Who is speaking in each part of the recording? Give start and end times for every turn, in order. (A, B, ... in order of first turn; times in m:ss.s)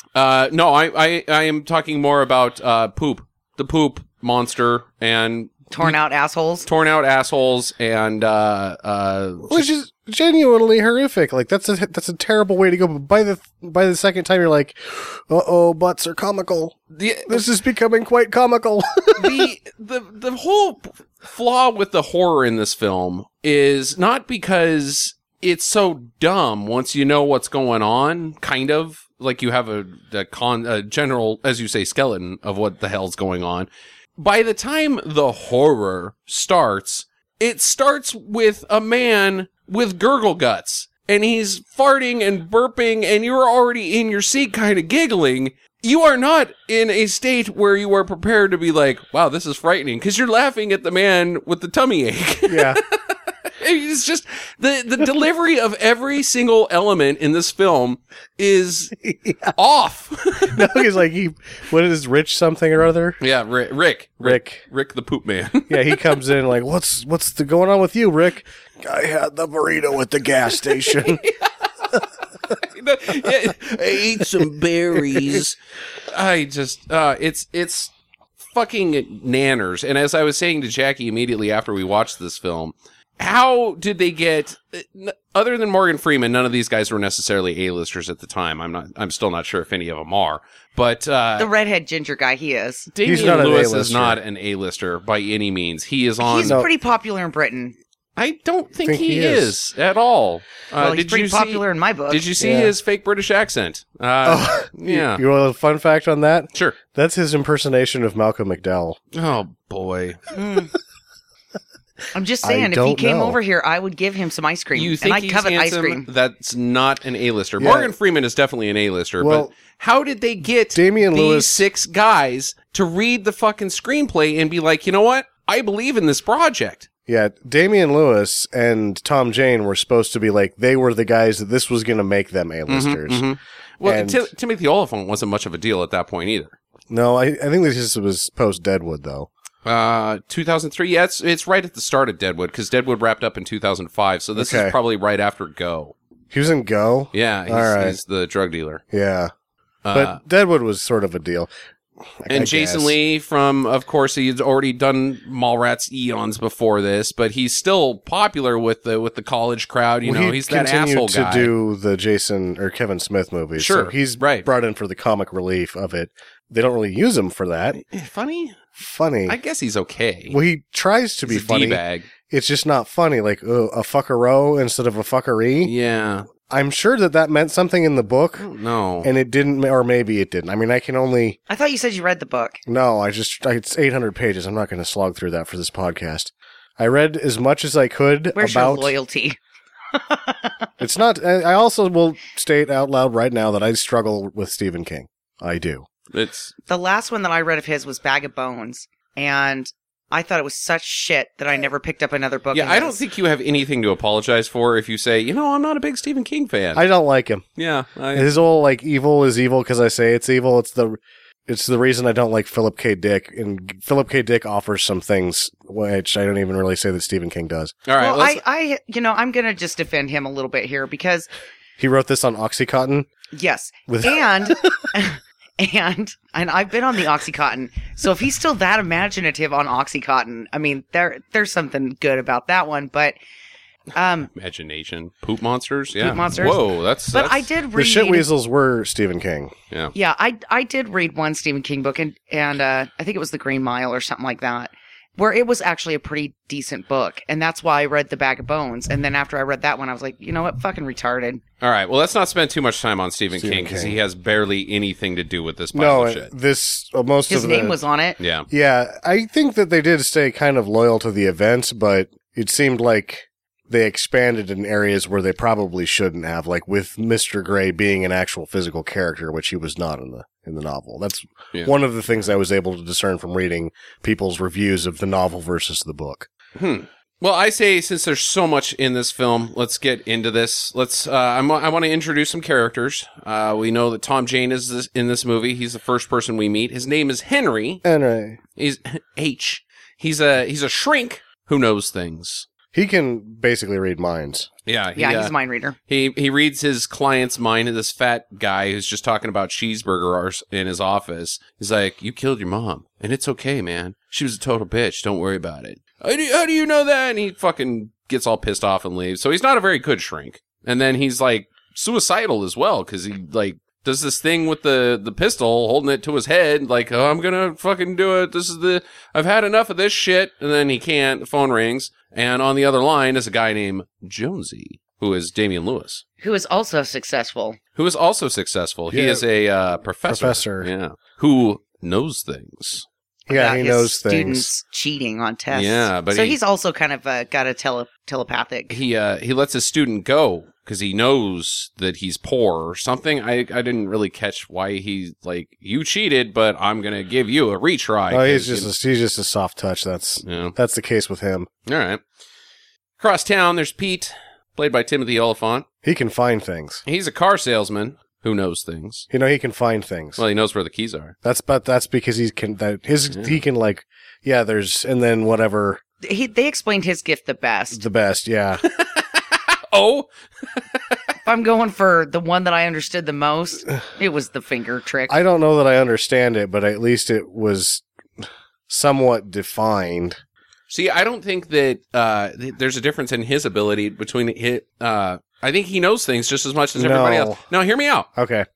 0:00.2-0:06.0 A
0:05.7-0:06.7 B
0:06.6-0:09.6 A
0:09.5-0:19.5 C
0:16.9-0:17.5 A
0:19.2-1:00.8 A
0:52.5-0:52.8 C
1:00.5-1:03.2 C
1:03.2-1:06.2 A
1:04.2-1:04.6 C
1:05.7-1:11.2 C
1:10.9-1:15.6 A
1:16.1-1:17.9 A
1:18.4-1:31.5 A
1:31.4-1:32.9 B
1:32.9-1:36.6 A
1:33.0-1:34.2 C
1:36.2-1:37.8 B
1:38.2-1:45.2 A
1:38.8-1:39.5 C
1:40.8-1:42.3 B
1:42.4-1:42.7 C
1:44.2-1:49.0 C
1:46.5-1:46.8 A
1:49.1-1:50.2 A
1:50.3-1:50.7 B
1:52.1-1:56.0 B
1:52.4-1:53.4 C
1:54.7-2:06.9 A
1:57.6-1:57.9 C
1:59.2-1:59.5 C
2:00.7-2:01.6 C
2:07.1-2:13.2 C
2:12.7-2:16.6 A
2:13.8-2:14.3 C
2:16.9-2:19.3 C
2:19.6-2:26.0 A
2:24.4-2:24.8 C
2:26.3-2:28.0 C
2:27.1-2:28.8 A
2:28.9-2:29.3 C
2:29.8-2:30.2 A
2:29.9-2:31.5 C
2:32.2-2:33.0 C
2:32.3-2:41.5 A
2:40.0-2:47.8 C
2:43.6-2:44.5 A
2:47.7-2:48.6 A
2:48.8-2:49.4 C
2:49.3-2:50.4 A
2:50.3-2:55.7 C
2:51.3-2:52.1 A
2:55.6-2:56.3 A
2:56.5-2:58.5 C
2:58.4-2:59.1 A
2:59.0-3:01.4 C
3:01.5-3:02.6 B
3:02.7-3:08.9 C
3:08.4-3:09.4 B
3:09.9-3:10.7 B
3:10.8-3:15.9 C
3:16.1-3:16.5 A
3:16.7-3:23.0 B
3:22.5-3:26.8 A
3:26.7-3:27.5 C
3:27.6-3:28.3 A
3:28.1-3:37.7 C
3:37.8-3:38.4 A
3:38.0-3:41.3 B
3:41.8-3:43.1 C
3:43.3-3:53.2 B
3:43.9-3:44.2 C
3:53.9-3:54.3 B
3:54.3-3:57.5 A
3:56.0-3:58.3 B
3:57.7-3:59.5 C
4:00.0-4:11.4 B
4:11.6-4:16.3 A
4:13.4-4:14.0 C
4:15.7-4:17.8 C
4:17.3-4:18.2 B
4:18.2-4:18.5 A
4:18.5-4:36.3 C
4:36.6-4:47.8 A
4:47.8-4:48.4 C
4:48.6-4:52.5 A
4:52.7-4:54.5 C
4:54.6-4:55.3 A
4:55.0-4:55.8 B
4:55.9-5:26.0 A
5:26.2-5:27.6 B
5:27.8-5:32.9 A
5:28.9-5:29.2 C
5:30.1-5:30.7 C
5:33.3-5:34.5 C
5:33.3-5:38.8 B
5:35.5-5:36.4 A
5:38.7-5:48.7 A
5:48.1-5:51.5 C
5:50.2-5:50.6 A
5:51.6-5:52.0 A
5:53.0-5:55.6 A
5:55.8-5:56.8 C
5:56.9-5:59.1 A
5:59.1-6:00.2 C
6:00.2-6:01.1 A
6:01.2-6:05.8 C
6:03.1-6:03.4 A
6:06.0-6:07.8 B
6:07.7-6:08.6 C
6:08.6-6:11.1 A
6:11.2-6:15.2 B
6:15.1-6:20.2 C
6:20.7-6:28.1 A
6:26.8-6:27.4 C
6:28.2-6:28.5 C